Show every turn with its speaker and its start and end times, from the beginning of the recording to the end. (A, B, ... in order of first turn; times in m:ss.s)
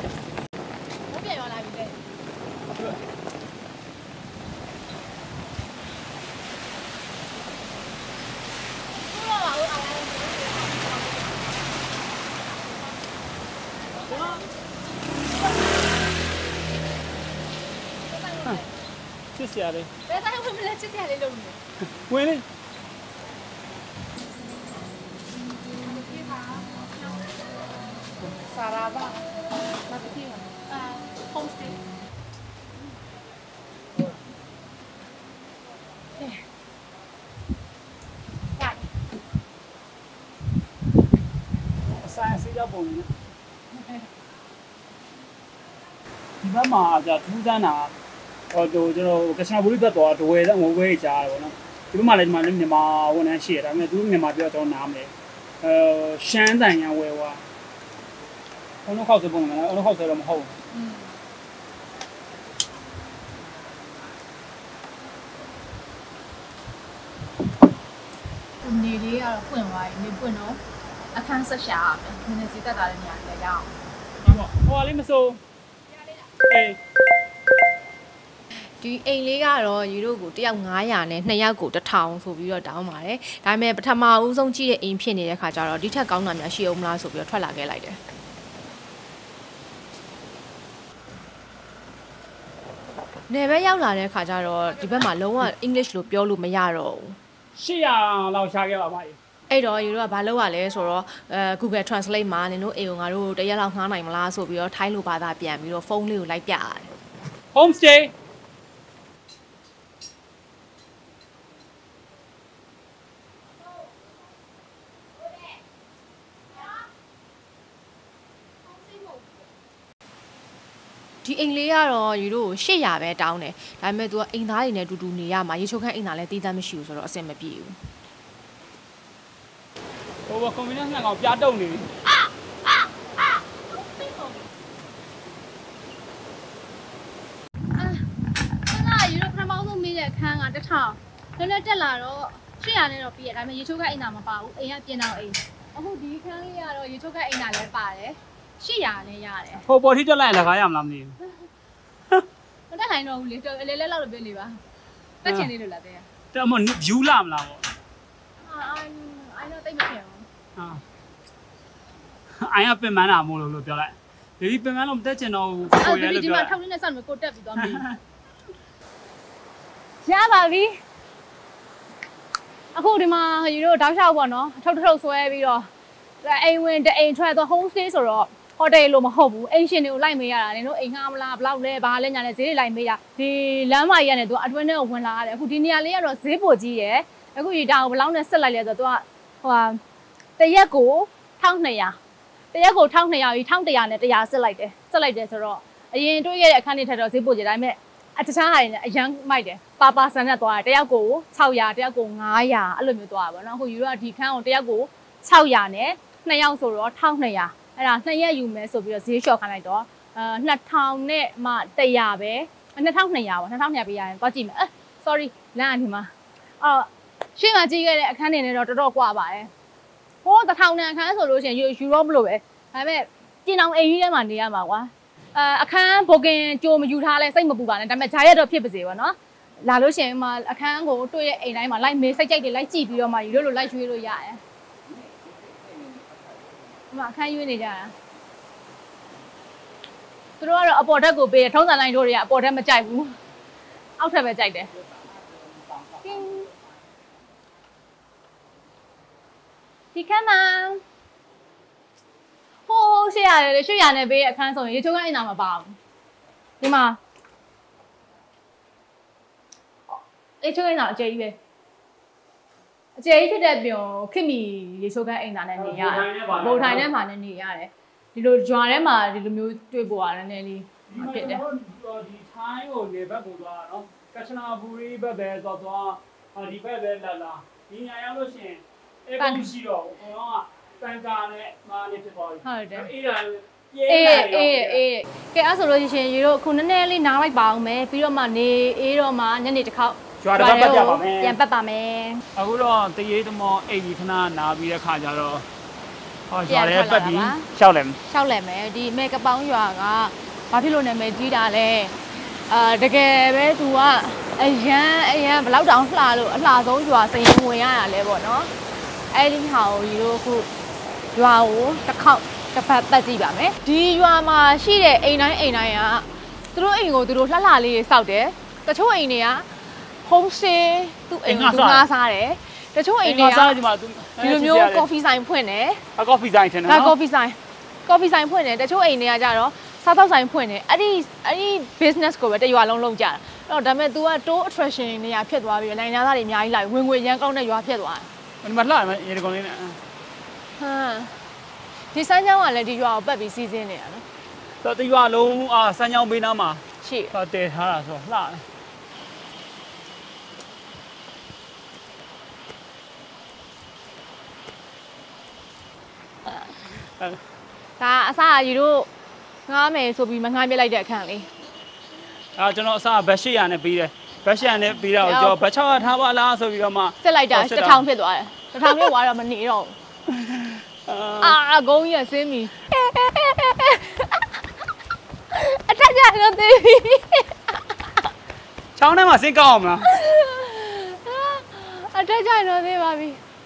0:01.1-0:02.0 A
0:09.1-0:11.4 A
0:14.1-0:14.4 A
0:18.1-0:18.7 A
0:19.4-0:19.9 B
0:20.1-0:21.6 A
0:21.9-0:22.5 B
0:25.9-0:26.8 A
0:28.5-0:29.2 A
0:29.9-0:31.8 A
0:41.9-0:43.1 B
0:46.4-0:47.9 B
0:48.5-0:57.4 B
0:58.8-1:00.6 B
1:00.7-1:01.1 A
1:08.6-1:10.6 A
1:11.1-1:13.7 A
1:14.2-1:15.4 B
1:16.5-1:16.8 B
1:18.8-1:28.0 C
1:20.3-1:21.3 A
1:21.8-1:22.1 A
1:33.3-1:37.2 C
1:37.5-1:39.2 B
1:39.5-1:46.9 C
1:47.5-1:48.1 B
2:01.2-2:04.1 A
2:01.3-2:07.8 C
2:10.3-2:11.9 B
2:14.0-2:14.3 A
2:17.8-2:29.7 A
2:29.6-2:31.2 B
2:32.7-2:34.6 A
2:35.2-2:36.1 A
2:35.2-2:35.5 B
2:36.3-2:37.7 B
2:38.4-2:40.3 A
2:40.6-2:40.8 B
2:42.4-2:46.6 B
2:45.7-2:47.9 A
2:47.6-2:48.0 B
2:50.0-2:50.8 A
2:52.7-2:55.7 A
2:56.2-3:09.8 A
3:10.4-3:12.0 A
3:12.5-3:39.5 A
3:40.2-3:54.4 A
3:56.9-3:57.9 A
4:00.4-4:03.2 A
4:04.0-4:04.7 A
4:06.0-4:06.5 A
4:09.9-4:10.8 A
4:12.7-4:15.8 A
4:16.6-4:17.0 A
4:19.9-4:21.4 A
4:23.0-4:31.4 A
4:25.6-4:26.9 B
4:30.9-4:44.8 B
4:39.2-4:39.5 A
4:42.4-4:42.9 A
4:43.9-4:52.2 A
4:50.2-4:51.4 B
4:52.4-4:55.5 B
4:56.3-4:58.0 B
4:56.5-4:57.5 A
4:58.1-5:08.5 A
5:09.1-5:10.5 A
5:11.2-5:19.5 A
5:20.0-5:23.6 A
5:21.2-5:21.9 B
5:23.0-5:24.9 B
5:24.2-5:25.8 A
5:26.0-5:27.0 B
5:26.7-5:38.1 A
5:38.4-5:39.8 B
5:40.6-5:41.2 A
5:41.9-5:44.0 A
5:44.6-5:48.4 B
5:46.8-5:47.1 A
5:57.8-5:58.9 A
5:59.5-6:01.3 A
6:02.4-6:07.8 B
6:05.0-6:05.4 A
6:07.0-6:09.8 A
6:10.1-6:11.4 B
6:11.2-6:14.3 A
6:15.3-6:17.6 A
6:18.8-6:20.0 B
6:19.8-6:23.2 A